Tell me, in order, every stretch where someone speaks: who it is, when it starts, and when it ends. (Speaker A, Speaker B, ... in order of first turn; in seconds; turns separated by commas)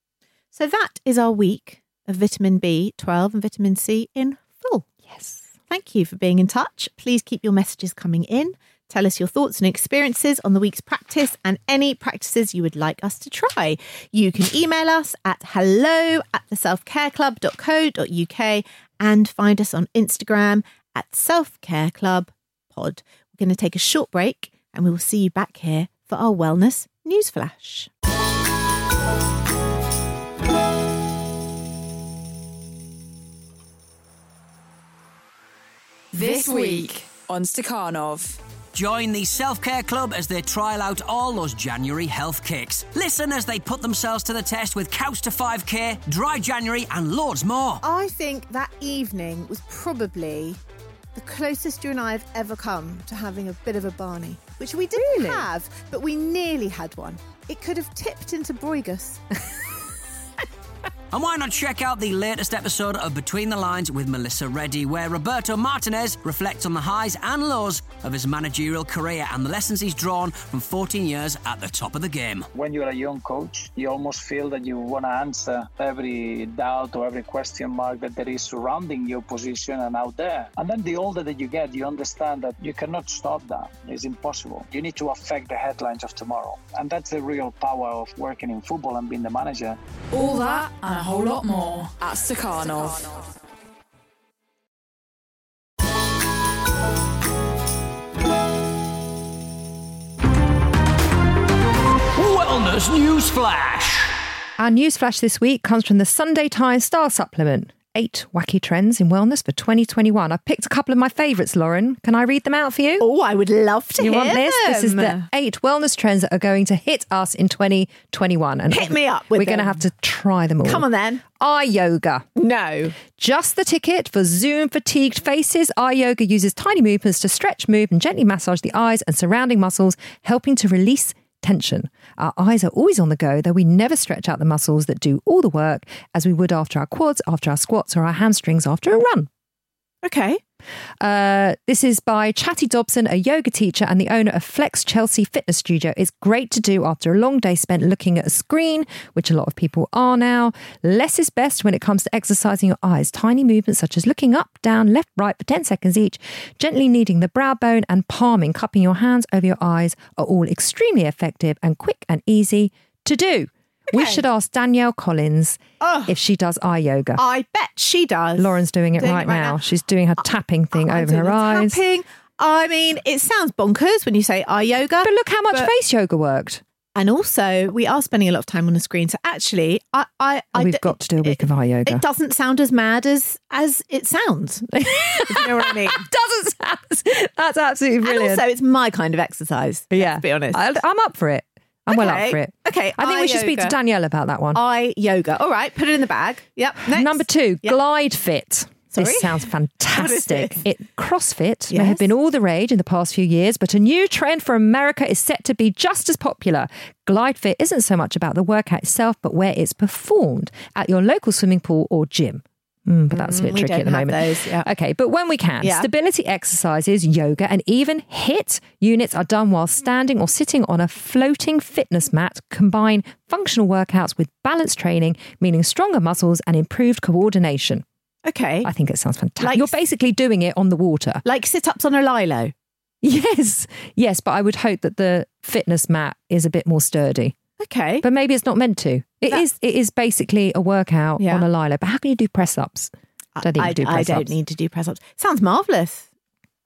Speaker A: 0.5-4.8, Speaker B: 5.1-5.4, Speaker A: 5.7-27.9, Speaker C: 36.1-38.4, Speaker A: 36.2-36.9, Speaker D: 38.7-47.8, Speaker A: 47.8-50.6, Speaker A: 51.1-59.2, Speaker B: 54.9-55.5, Speaker D: 61.1-72.5, Speaker E: 72.5-89.8, Speaker C: 90.1-93.2, Speaker D: 102.1-104.2, Speaker B: 104.6-113.1, Speaker A: 113.0-115.3, Speaker B: 114.0-120.8, Speaker A: 118.7-119.8, Speaker A: 120.6-121.2, Speaker B: 121.4-122.2, Speaker A: 122.3-123.0, Speaker B: 123.1-139.3, Speaker A: 140.0-140.4, Speaker B: 141.0-167.2, Speaker A: 163.9-164.2, Speaker A: 165.8-166.1, Speaker A: 167.2-169.6, Speaker B: 168.4-171.8, Speaker A: 170.7-175.7, Speaker B: 175.0-176.6, Speaker A: 176.9-186.1, Speaker B: 180.5-182.0, Speaker B: 184.7-188.4, Speaker A: 188.0-190.6, Speaker B: 189.9-194.6, Speaker A: 191.9-193.8, Speaker A: 194.5-197.8, Speaker B: 196.8-227.8, Speaker A: 198.9-200.6, Speaker A: 201.7-202.1, Speaker A: 213.1-214.7, Speaker A: 215.6-215.9, Speaker A: 228.2-228.7, Speaker B: 228.6-231.2, Speaker A: 229.4-229.7, Speaker A: 231.2-232.5, Speaker B: 233.0-237.4, Speaker A: 237.6-238.0, Speaker B: 238.0-244.3, Speaker A: 241.2-241.4, Speaker A: 243.3-246.1